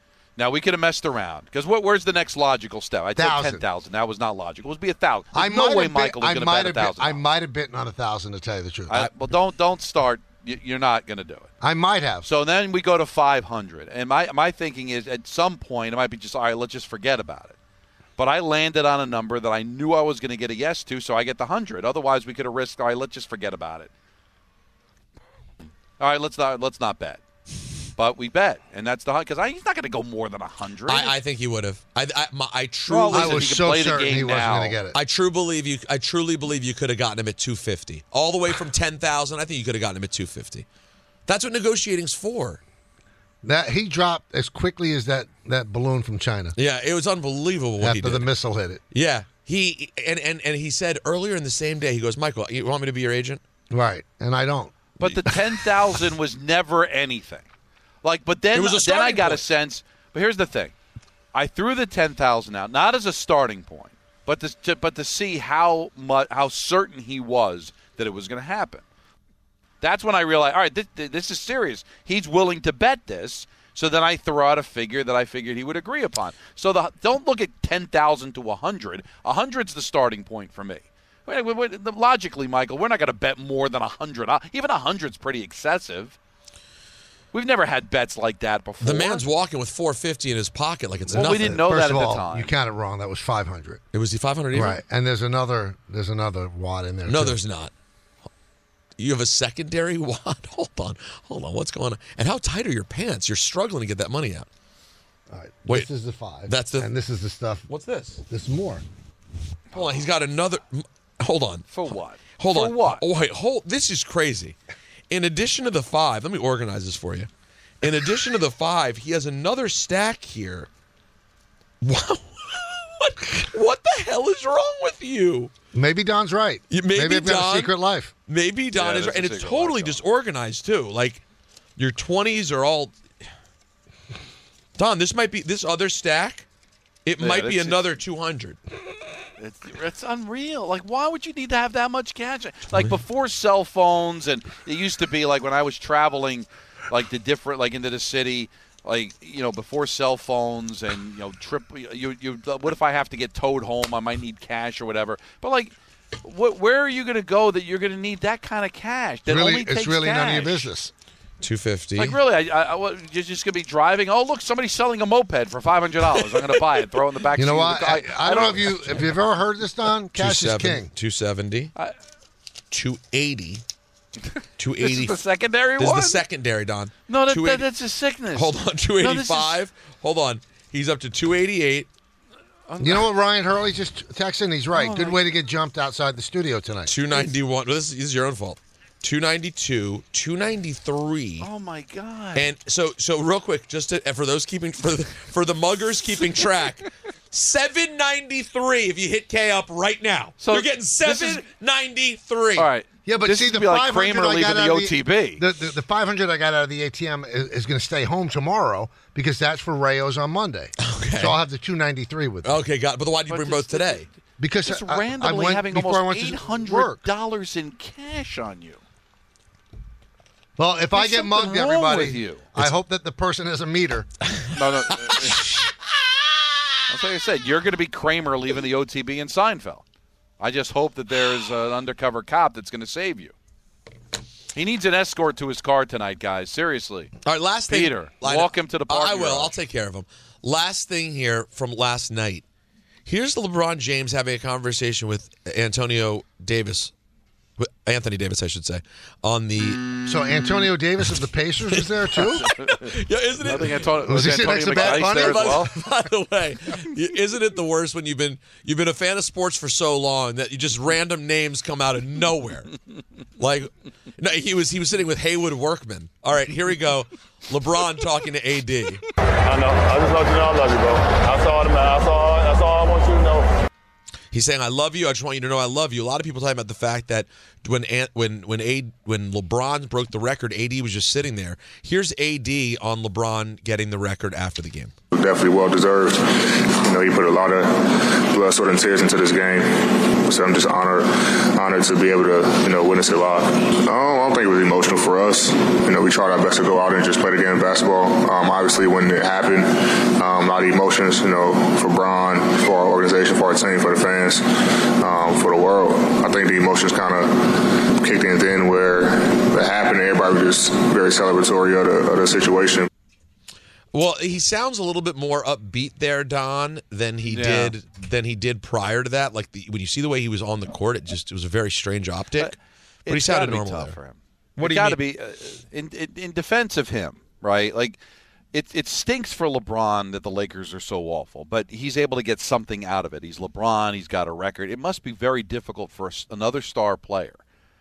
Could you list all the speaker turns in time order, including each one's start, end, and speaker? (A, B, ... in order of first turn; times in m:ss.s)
0:00.4-0:07.2 A
0:03.2-0:03.6 B
0:05.3-0:09.1 B
0:08.9-0:11.5 A
0:11.6-0:12.3 B
0:12.2-0:17.6 A
0:18.2-0:23.9 A
0:26.0-0:27.2 A
0:28.0-0:31.2 A
0:30.9-0:33.7 C
0:32.9-0:35.0 B
0:32.9-0:34.8 A
0:34.9-0:40.7 C
0:41.3-0:42.6 C
0:43.4-0:46.6 B
0:46.6-0:48.3 C
0:47.8-0:48.8 B
0:48.9-0:53.4 C
0:53.7-0:54.7 B
0:55.0-0:57.5 A
0:58.0-1:00.7 A
0:58.5-0:59.4 C
1:01.3-1:08.8 A
1:09.8-1:26.2 A
1:27.3-1:29.2 A
1:28.8-1:31.7 C
1:31.1-1:33.8 B
1:31.1-1:32.5 A
1:33.9-1:34.8 C
1:34.5-1:37.4 B
1:37.1-1:37.7 C
1:39.0-1:44.5 C
1:45.3-1:47.7 B
1:46.5-1:46.9 C
1:47.7-1:48.2 C
1:48.3-1:48.8 B
1:49.7-1:50.1 A
1:49.7-1:51.7 C
1:51.7-1:53.0 A
1:52.4-1:54.6 C
1:55.1-1:57.3 C
1:57.8-2:00.7 C
2:01.8-2:05.5 C
2:05.7-2:08.1 B
2:06.7-2:07.7 C
2:08.3-2:11.2 C
2:08.8-2:10.0 A
2:11.8-2:13.0 C
2:14.8-2:16.5 C
2:17.0-2:18.6 C
2:17.2-2:17.9 A
2:19.4-2:40.7 A
2:39.3-2:40.9 B
2:41.4-2:42.2 C
2:42.0-2:49.0 A
2:47.4-2:50.9 B
2:50.2-2:51.7 C
2:52.7-2:53.6 C
2:54.6-2:55.2 C
2:54.8-2:56.2 A
2:55.8-2:57.7 C
2:57.1-2:59.6 A
2:58.4-3:01.9 C
3:02.7-3:03.1 A
3:02.8-3:06.9 B
3:04.7-3:05.2 A
3:06.9-3:11.5 C
3:11.4-3:12.5 A
3:12.4-3:22.7 C
3:20.4-3:21.4 A
3:22.6-3:25.4 A
3:23.1-3:32.6 B
3:30.8-3:31.4 C
3:32.4-3:34.1 C
3:33.3-3:38.8 A
3:34.4-3:37.1 B
3:40.6-3:44.1 B
3:40.9-3:42.5 A
3:44.3-3:45.2 C
3:44.5-3:45.6 A
3:46.9-3:49.8 A
3:50.4-3:53.3 A
3:54.5-3:57.1 A
3:57.3-4:02.4 C
3:57.7-3:59.6 A
4:03.1-4:06.9 C
4:07.6-4:10.0 C
4:10.1-4:12.5 B
4:11.8-4:22.8 C
4:12.4-4:12.8 A
4:13.4-4:15.7 A
4:14.0-4:15.8 B
4:23.4-4:29.0 C
4:29.4-4:33.5 D
4:34.3-4:44.9 C
4:45.1-5:12.9 E
5:13.9-5:22.6 C
5:17.3-5:17.7 A
5:22.4-5:28.0 A
5:23.1-5:24.0 C
5:24.6-5:25.0 C
5:28.5-5:37.4 A